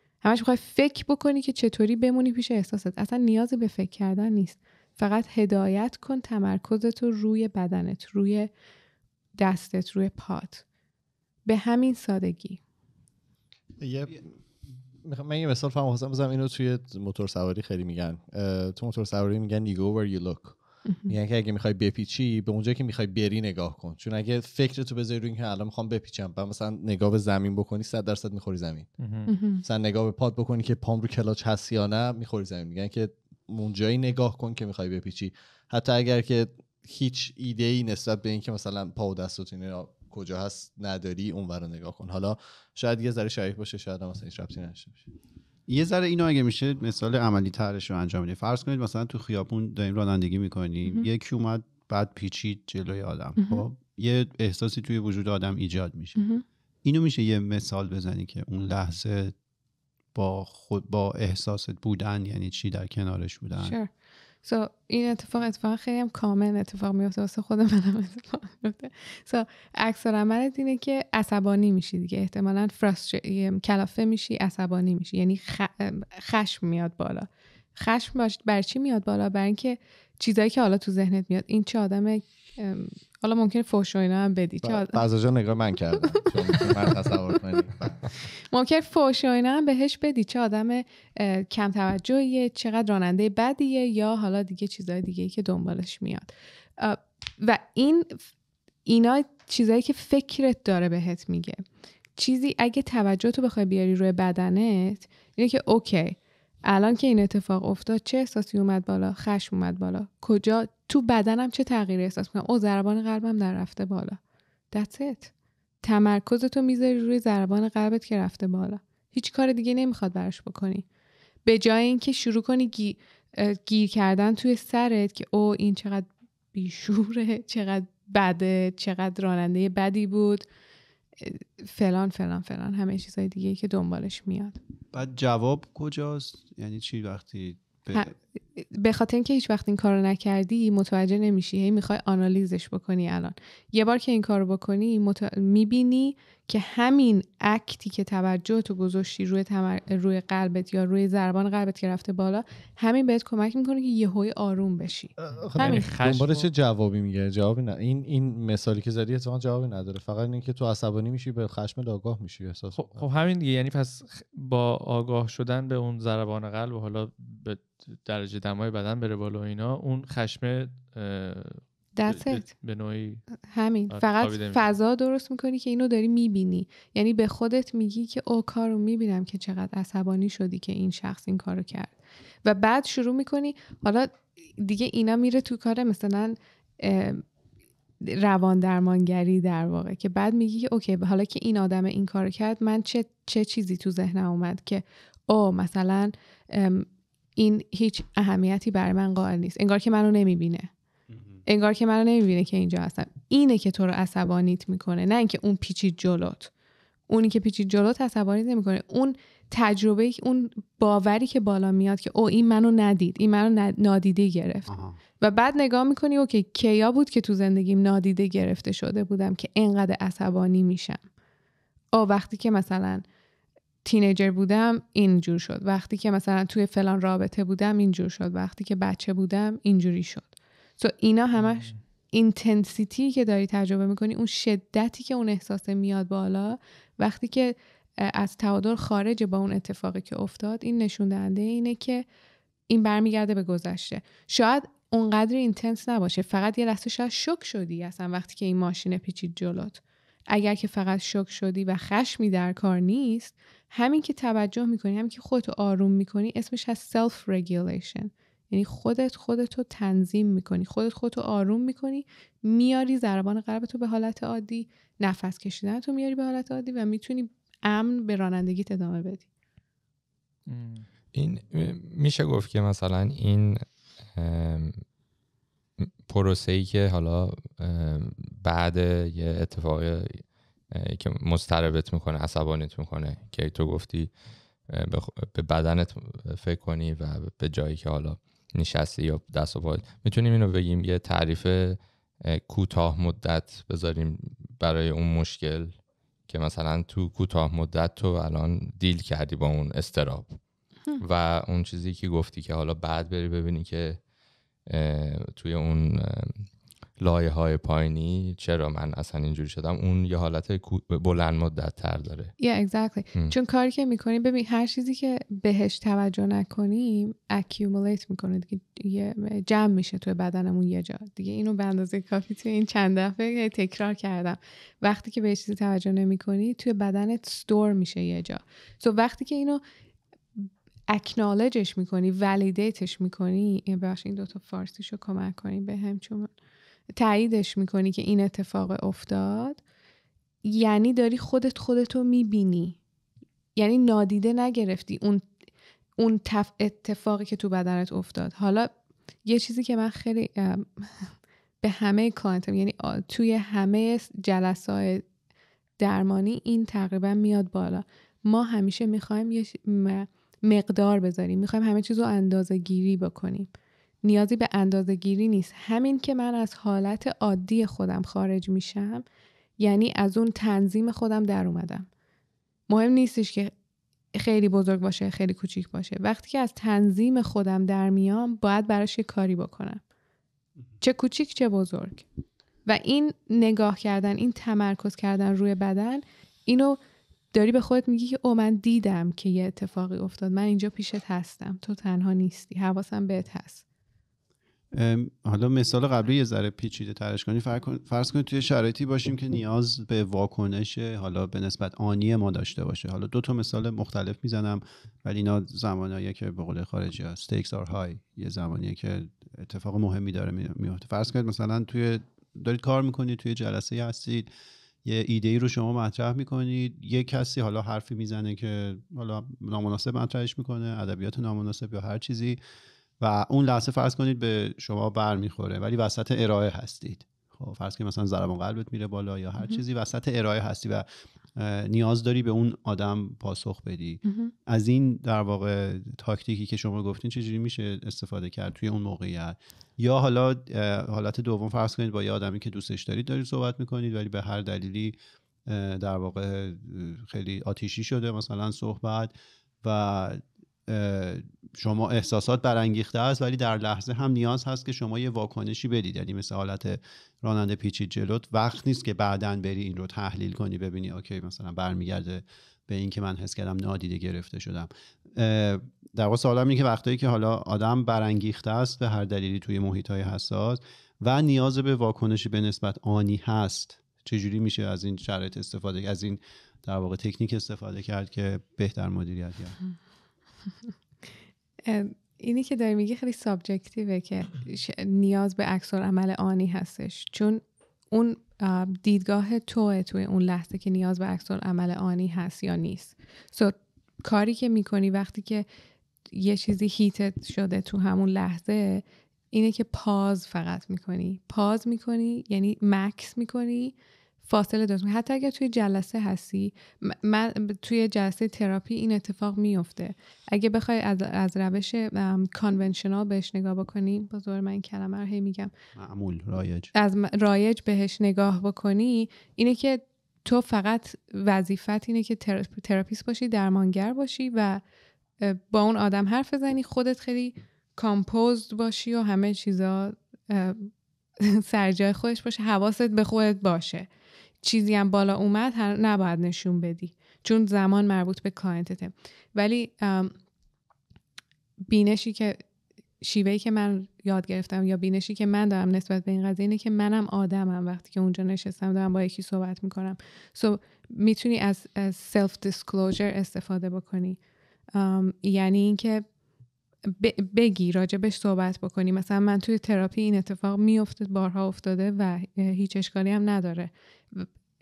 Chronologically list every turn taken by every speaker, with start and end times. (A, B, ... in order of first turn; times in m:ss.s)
0:00.2-0:08.5 A
0:09.4-0:10.6 A
0:11.5-0:12.6 A
0:13.8-0:14.3 B
0:15.0-0:28.9 B
0:20.8-0:21.1 A
0:29.0-0:29.3 C
0:29.3-0:29.6 A
0:29.4-0:45.1 B
0:45.7-0:56.2 D
0:53.4-0:53.7 A
0:56.2-0:56.4 A
0:56.8-0:59.3 D
1:00.2-1:03.8 D
1:03.6-1:03.9 A
1:04.4-1:25.0 A
1:24.6-1:28.0 B
1:28.5-1:38.2 A
1:38.9-1:41.6 A
1:42.2-1:54.2 A
1:54.7-1:55.3 A
1:55.8-2:00.8 A
2:01.5-2:10.5 A
2:11.2-2:14.6 A
2:14.9-2:18.1 D
2:17.9-2:35.9 A
2:35.2-2:43.0 B
2:35.6-2:36.5 C
2:42.8-2:53.3 C
2:52.0-2:52.5 A
2:53.5-3:01.9 A
2:53.9-2:54.7 C
3:02.4-3:07.2 A
3:08.0-3:20.7 A
3:21.1-3:21.4 D
3:21.5-3:26.5 A
3:27.1-3:41.0 A
3:34.7-3:35.0 D
3:41.9-3:43.0 A
3:43.8-4:02.0 A
3:51.4-3:51.8 C
4:02.7-4:29.3 A
4:30.5-4:30.9 C
4:31.1-4:34.8 E
4:36.1-4:44.1 E
4:44.7-4:55.7 E
4:56.3-5:00.4 E
5:01.0-5:04.0 E
5:04.7-5:06.5 E
5:07.0-5:12.3 E
5:12.4-5:29.6 A
5:30.4-5:36.3 A
5:37.0-5:39.6 A
5:40.4-5:42.8 A
5:43.6-5:45.3 A
5:46.0-5:48.7 A
5:49.3-5:55.0 A
5:55.8-6:03.5 A
6:04.0-6:09.0 A
6:09.6-6:11.9 A
6:12.7-6:13.5 A
6:14.2-6:19.8 A
6:20.8-6:22.0 A
6:22.7-6:26.8 A
6:27.3-6:33.6 A
6:34.7-6:54.3 D
6:54.8-7:02.4 D
7:03.0-7:59.6 D
7:14.1-7:14.3 A
8:01.7-8:15.5 A
8:16.1-8:35.5 A
8:35.8-8:36.7 D
8:36.7-8:44.6 A
8:45.2-8:53.9 A
8:54.4-9:00.2 A
9:01.7-9:02.4 A
9:03.0-9:14.2 A
9:14.7-9:16.1 A
9:16.9-9:24.3 A